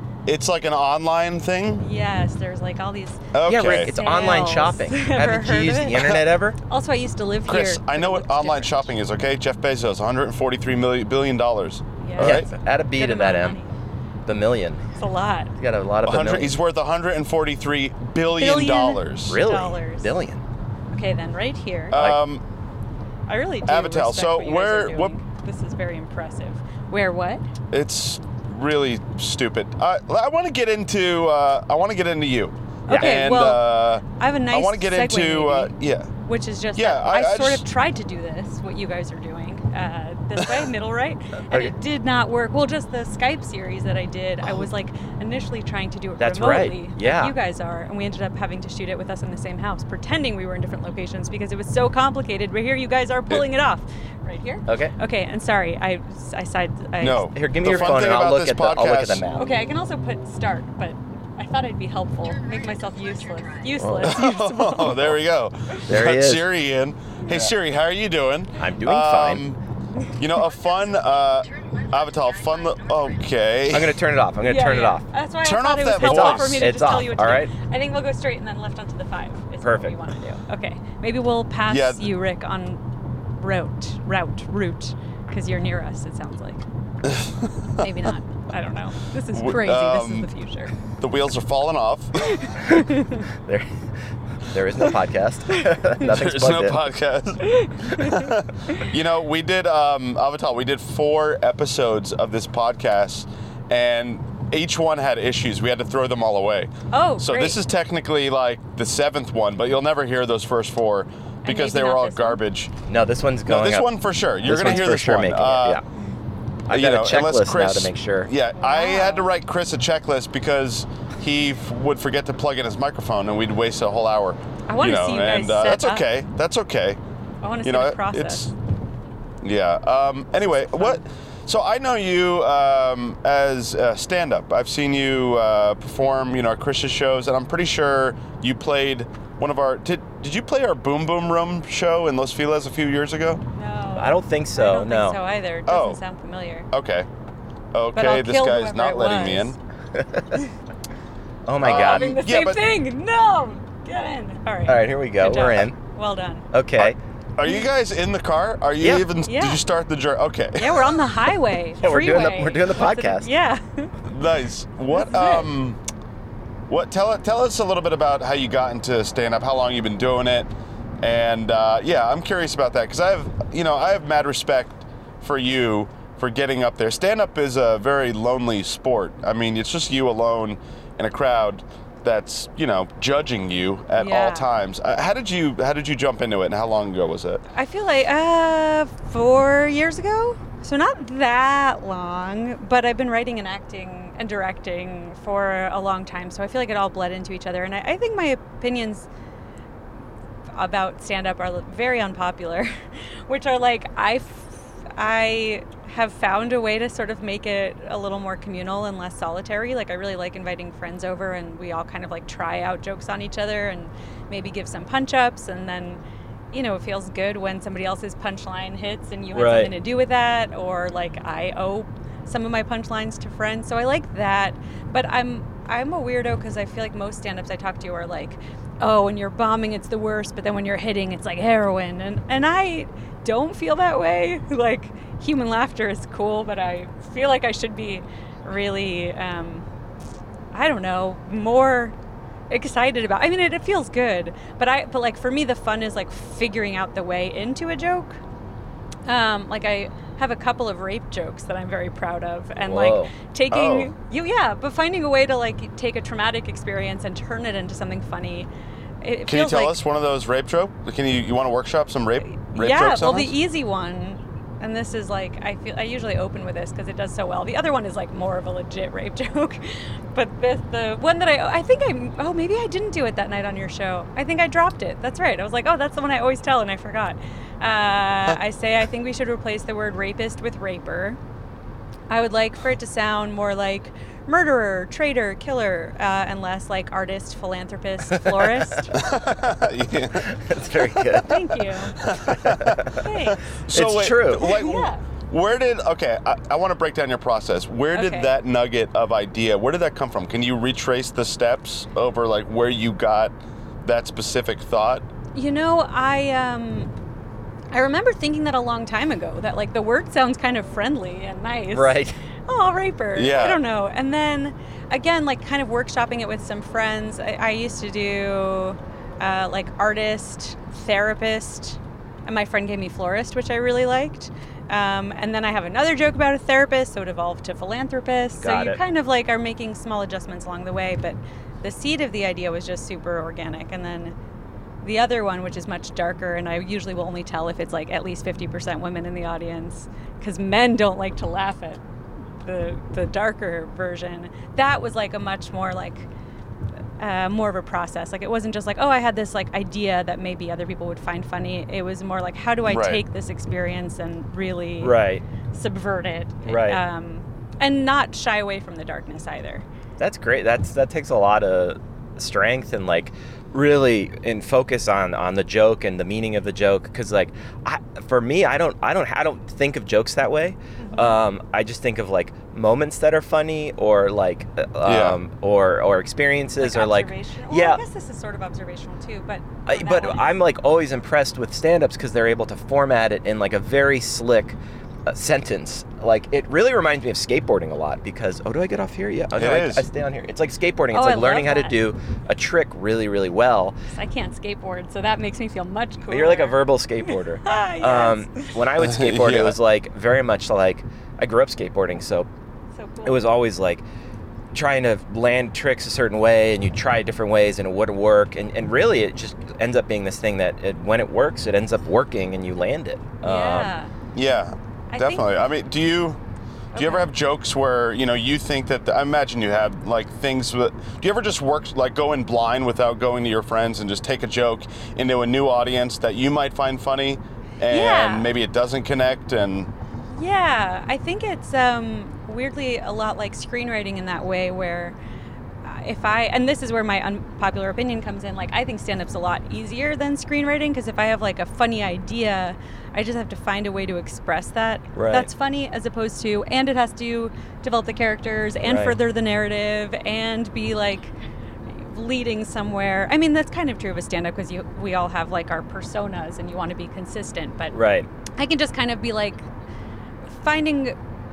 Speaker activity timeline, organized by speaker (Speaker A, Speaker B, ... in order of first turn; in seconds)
Speaker A: 0.3-1.9, 3.3-4.0, 7.5-12.5, 16.1-19.4, 21.9-22.4, 23.6-25.1, 27.7-36.1, 36.8-37.6, 57.0-59.2, 64.0-69.6, 70.2-74.0, 75.4-76.7, 81.7-82.1, 87.0-87.9, 89.3-90.3, 91.0-92.3, 96.0-112.7, 113.5-115.8, 116.7-127.0, 127.6-128.5, 129.4-143.4, 145.7-146.0, 146.7-147.1, 147.7-149.6, 151.6-152.6, 156.8-161.1, 164.0-165.8, 166.7-187.4, 253.5-253.9, 259.3-263.4, 288.9-290.3, 290.9-291.2, 292.0-305.1, 313.1-313.6, 352.7-353.0, 374.8-375.2, 389.4-389.9, 398.8-399.6, 414.1-416.2, 416.8-429.7
Speaker B: 1.8-8.9, 12.0-13.7, 14.9-15.5, 18.4-20.1, 20.9-22.0, 23.3-27.5, 32.9-35.7, 36.2-57.3, 59.4-65.1, 74.4-82.8, 83.4-86.6, 87.8-90.8, 92.3-93.2, 97.4-98.3, 106.9-107.6, 111.4-112.4, 118.6-119.3, 124.7-126.0, 127.4-128.5, 130.6-131.0, 143.6-146.7, 147.9-149.6, 151.6-156.5, 159.2-159.6, 160.6-163.9, 164.9-165.5, 184.0-184.5, 187.5-199.1, 200.5-202.7, 203.3-216.0, 216.5-239.7, 240.5-241.9, 242.5-248.2, 249.1-258.5, 259.0-259.8, 262.3-281.2, 282.1-289.0, 291.2-292.0, 292.9-293.4, 294.4-295.0, 297.9-298.3, 305.4-306.9, 307.7-334.1, 334.8-341.8, 342.4-346.1, 347.0-355.0, 355.5-359.6, 370.8-371.2, 376.6-380.4, 390.9-391.8, 393.9-398.5, 402.8-403.3, 413.2-413.9, 414.9-415.3, 416.7-417.1, 427.7-428.3, 430.1-435.0, 435.6-451.1, 451.7-457.8, 458.4-459.5, 460.3-460.9
Speaker C: 3.5-6.6, 12.2-13.6, 14.3-14.8, 15.6-16.6, 19.3-20.4, 21.9-22.2, 32.9-33.2, 46.2-47.4, 54.7-54.9, 57.4-59.5, 63.8-64.1, 65.9-66.5, 68.6-69.5, 73.7-75.1, 76.0-77.5, 79.6-80.0, 92.5-93.8, 94.4-96.8, 112.9-113.9, 114.4-115.8, 116.7-118.3, 144.0-145.2, 149.9-150.4, 151.5-152.2, 154.7-155.8, 156.5-157.0, 158.8-159.1, 161.8-163.3, 219.3-219.7, 252.6-253.1, 288.2-288.7, 290.2-291.5, 292.3-293.0, 293.7-294.6, 311.7-312.1, 328.4-328.8, 354.8-355.2, 356.5-356.8, 360.0-377.8, 379.7-393.8, 396.1-402.3, 403.1-403.8, 404.5-413.7, 444.9-445.3, 448.6-449.0, 457.7-458.1